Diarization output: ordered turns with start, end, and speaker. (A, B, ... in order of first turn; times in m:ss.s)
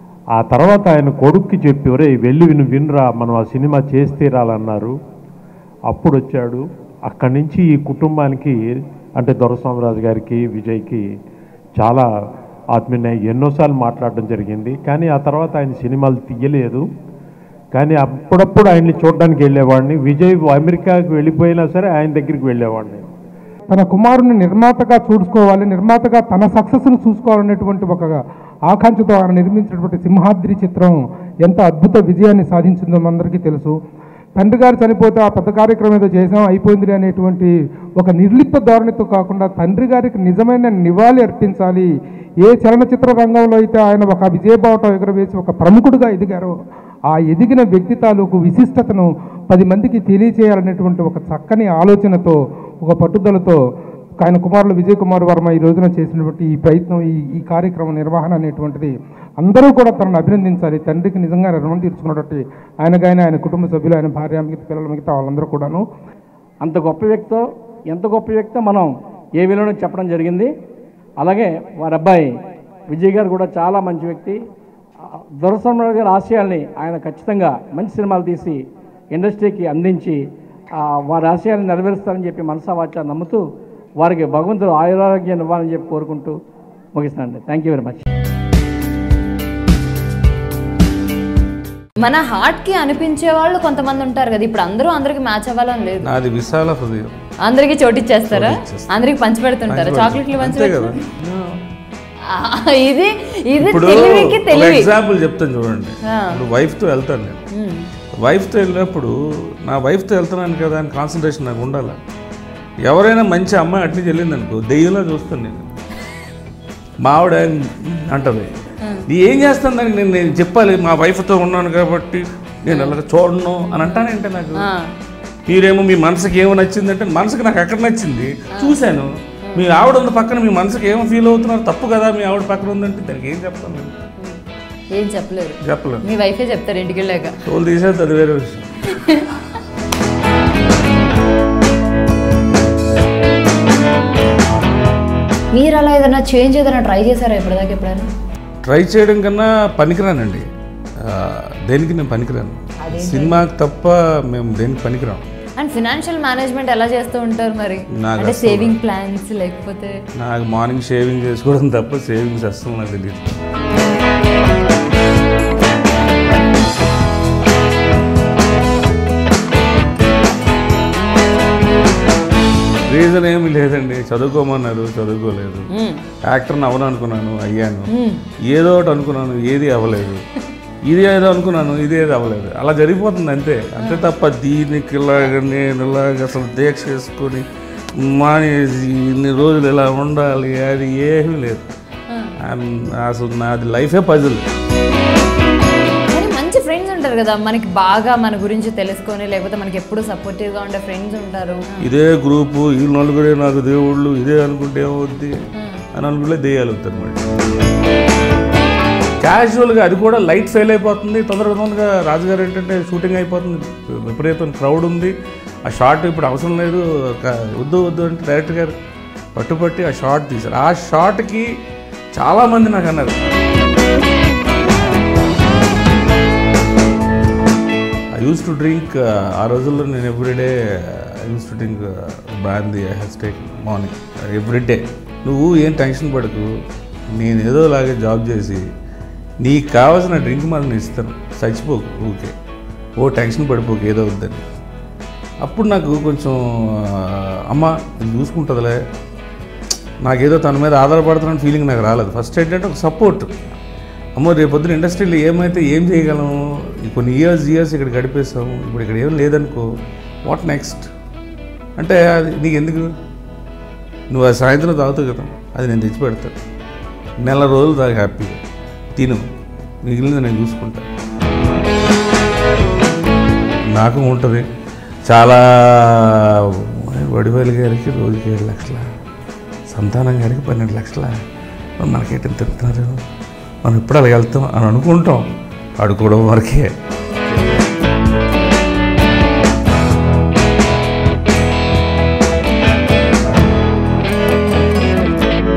0:00.4-0:04.9 A
0:05.9-0:08.6 A
0:09.2-0:11.0 A
0:11.8-0:12.1 A
0:12.8-0:16.8 A
0:17.7-0:23.0 A
0:23.7-0:33.7 B
0:34.4-0:41.9 B
0:42.4-0:46.5 B
0:47.1-0:53.6 B
0:54.2-1:05.8 B
1:06.6-1:10.5 C
1:11.2-1:12.3 C
1:12.9-1:14.4 C
1:15.4-1:18.6 C
1:19.1-1:20.2 C
1:20.8-1:23.4 C
1:24.0-1:26.4 C
1:27.0-1:28.0 C
1:32.0-1:36.1 D
1:36.0-1:37.1 E
1:37.5-1:41.1 D
1:38.3-1:38.9 E
1:39.7-1:41.5 E
1:42.3-1:44.9 D
1:43.6-1:47.4 E
1:46.1-1:46.4 D
1:47.5-1:47.9 D
1:48.2-1:52.0 E
1:52.8-1:55.7 E
1:57.0-1:58.5 E
1:59.1-2:04.6 E
2:02.7-2:03.0 D
2:04.5-2:04.9 D
2:05.5-2:13.9 E
2:08.5-2:08.8 D
2:09.5-2:09.7 D
2:15.0-2:17.4 D
2:15.6-2:16.0 E
2:17.4-2:18.6 E
2:18.9-2:19.2 D
2:25.5-2:28.1 D
2:28.6-2:30.4 E
2:31.0-2:35.2 E
2:32.8-2:33.4 D
2:35.6-2:40.0 D
2:37.9-2:38.8 E
2:40.2-2:43.3 E
2:52.9-2:55.7 E
2:55.7-2:56.0 D
2:56.2-2:57.9 E
2:57.9-2:58.2 D
2:58.4-3:00.2 E
3:00.8-3:07.4 E
3:03.8-3:04.1 D
3:08.0-3:11.6 E
3:12.4-3:14.4 E
3:16.1-3:21.9 D
3:21.8-3:25.4 E
3:25.9-3:27.2 E
3:29.2-3:35.1 E
3:35.7-3:38.7 E
3:39.3-3:41.5 E
3:42.1-3:43.2 E
3:48.2-3:56.5 E
3:57.2-3:58.6 E
3:59.4-4:02.3 E
4:03.0-4:04.4 E
4:05.4-4:08.8 E
4:10.0-4:13.3 E
4:14.2-4:19.7 E
4:20.2-4:20.9 E
4:21.8-4:22.9 E
4:24.1-4:26.3 E
4:27.2-4:28.4 E
4:28.9-4:29.2 E
4:29.8-4:30.9 E
4:33.7-4:34.5 E
4:35.1-4:38.9 E
4:39.7-4:41.2 E
4:41.8-4:43.0 E
4:43.6-4:45.3 E
4:45.8-4:46.7 E